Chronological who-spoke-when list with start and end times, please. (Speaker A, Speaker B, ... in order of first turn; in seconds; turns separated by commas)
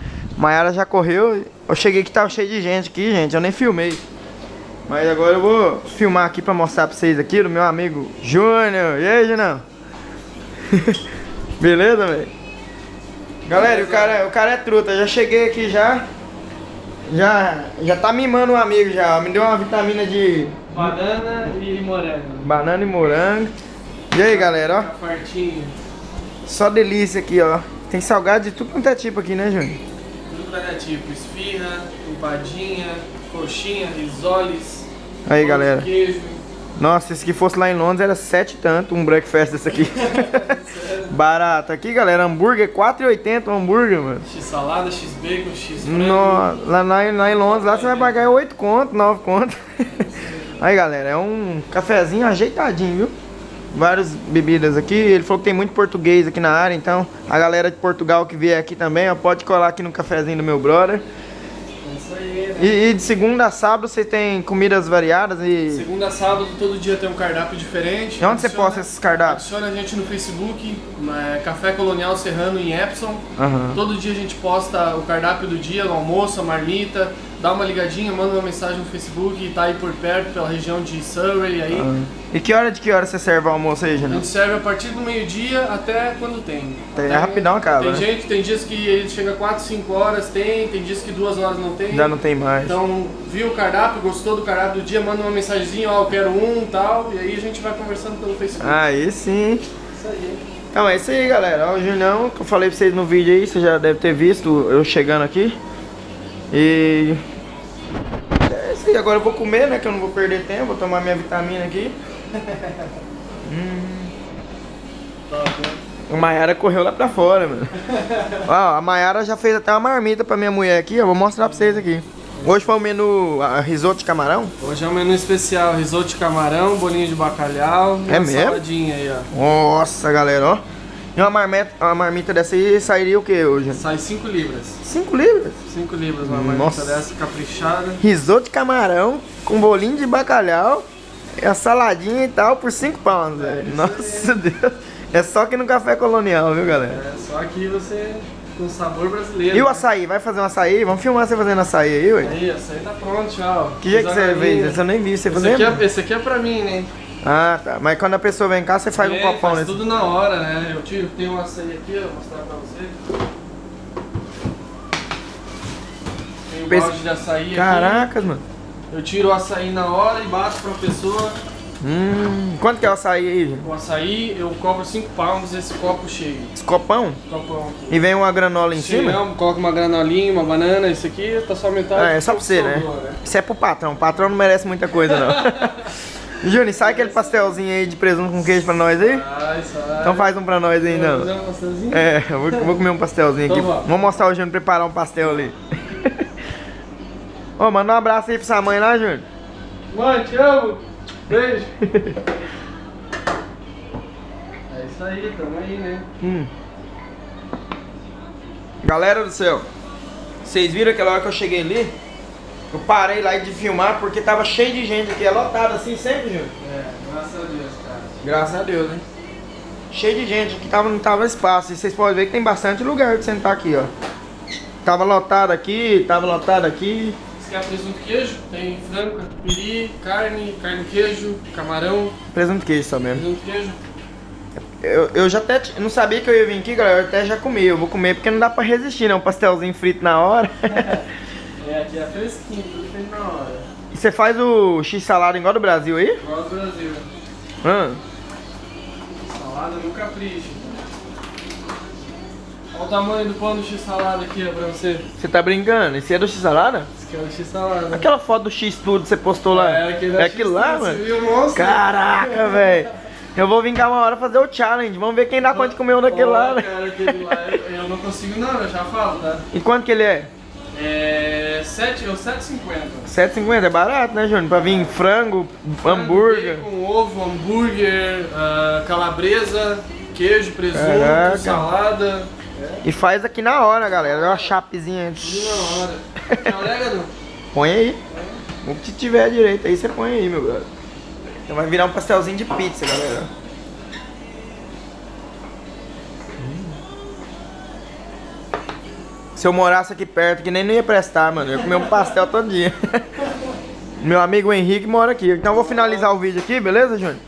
Speaker A: 0.4-4.0, Speaker A: 4.9-9.6, Speaker A: 10.7-11.0, Speaker A: 11.6-12.3, Speaker A: 13.5-16.1, Speaker B: 13.5-14.2, Speaker A: 17.1-20.9, Speaker B: 20.7-22.5, Speaker A: 22.4-23.5, Speaker A: 24.1-24.9, Speaker B: 24.2-25.8, Speaker A: 26.5-29.8, Speaker B: 30.3-36.4, Speaker A: 35.3-35.9, Speaker A: 36.8-40.5, Speaker B: 39.7-41.1, Speaker A: 41.1-44.2, Speaker B: 44.3-46.5, Speaker A: 45.8-50.0, Speaker B: 47.2-48.4, Speaker B: 50.1-50.5, Speaker A: 50.6-53.1, Speaker A: 53.7-61.0, Speaker B: 61.8-63.0, Speaker A: 62.6-65.8, Speaker B: 65.7-81.9, Speaker A: 68.2-69.4, Speaker A: 73.4-73.8, Speaker A: 81.7-84.3, Speaker B: 84.0-92.1, Speaker A: 87.0-88.1, Speaker A: 91.9-92.7, Speaker B: 92.7-98.8, Speaker A: 98.6-99.6, Speaker B: 99.9-100.4, Speaker A: 100.7-105.6, Speaker A: 106.5-107.2, Speaker A: 108.4-112.0, Speaker A: 113.5-114.1, Speaker B: 115.3-115.8, Speaker A: 116.1-117.7, Speaker B: 117.9-118.4, Speaker A: 118.5-124.5, Speaker B: 121.4-122.7, Speaker B: 124.6-129.3, Speaker A: 128.1-128.6, Speaker A: 129.3-130.6, Speaker A: 131.2-133.8, Speaker B: 133.7-134.8, Speaker A: 134.8-135.6, Speaker B: 135.7-138.0, Speaker A: 136.2-137.0, Speaker A: 138.0-140.8, Speaker A: 141.4-147.0, Speaker B: 143.3-144.3, Speaker B: 146.8-149.8, Speaker A: 149.5-152.4, Speaker B: 152.2-156.9, Speaker A: 153.8-155.8, Speaker A: 157.2-159.8, Speaker B: 159.0-163.0, Speaker B: 166.5-168.1, Speaker A: 166.7-167.0, Speaker A: 167.5-168.4, Speaker B: 168.9-171.4, Speaker A: 171.8-173.7, Speaker B: 173.6-176.5, Speaker A: 176.6-177.2, Speaker B: 177.3-178.0, Speaker A: 177.9-179.2, Speaker B: 178.7-183.2, Speaker A: 181.9-189.2, Speaker B: 185.1-185.9, Speaker B: 186.8-187.6, Speaker B: 189.0-190.3, Speaker A: 190.0-191.3, Speaker B: 190.8-192.7, Speaker A: 191.9-196.2, Speaker B: 193.5-194.0, Speaker A: 197.6-199.2, Speaker B: 199.9-201.7, Speaker A: 201.8-202.2, Speaker B: 204.7-206.1, Speaker A: 206.2-206.5, Speaker A: 208.8-209.7, Speaker A: 210.4-211.9, Speaker A: 212.7-216.5, Speaker B: 216.6-218.2, Speaker A: 218.2-219.0, Speaker A: 219.9-223.9, Speaker A: 224.8-227.2, Speaker B: 227.4-232.2, Speaker A: 232.3-233.2, Speaker B: 233.1-233.8, Speaker A: 234.8-241.0, Speaker B: 240.7-241.0, Speaker B: 241.6-243.7, Speaker A: 243.9-246.2, Speaker B: 246.2-247.1, Speaker A: 247.6-248.0, Speaker B: 249.2-250.9, Speaker B: 252.7-255.1, Speaker A: 255.2-256.9, Speaker B: 257.0-258.1, Speaker A: 257.9-261.0, Speaker B: 259.5-262.7, Speaker A: 261.5-267.6, Speaker B: 265.4-269.5, Speaker A: 269.5-270.3, Speaker B: 270.7-273.1, Speaker A: 273.1-276.6, Speaker B: 275.9-282.8, Speaker A: 280.7-281.7, Speaker A: 282.8-286.5, Speaker B: 283.9-284.6, Speaker B: 285.2-287.1, Speaker A: 287.5-288.0, Speaker B: 288.1-288.4, Speaker A: 288.6-290.7, Speaker A: 291.5-293.3, Speaker A: 296.4-296.7, Speaker A: 299.4-303.1, Speaker B: 301.6-302.0, Speaker A: 304.0-307.2, Speaker B: 305.4-306.1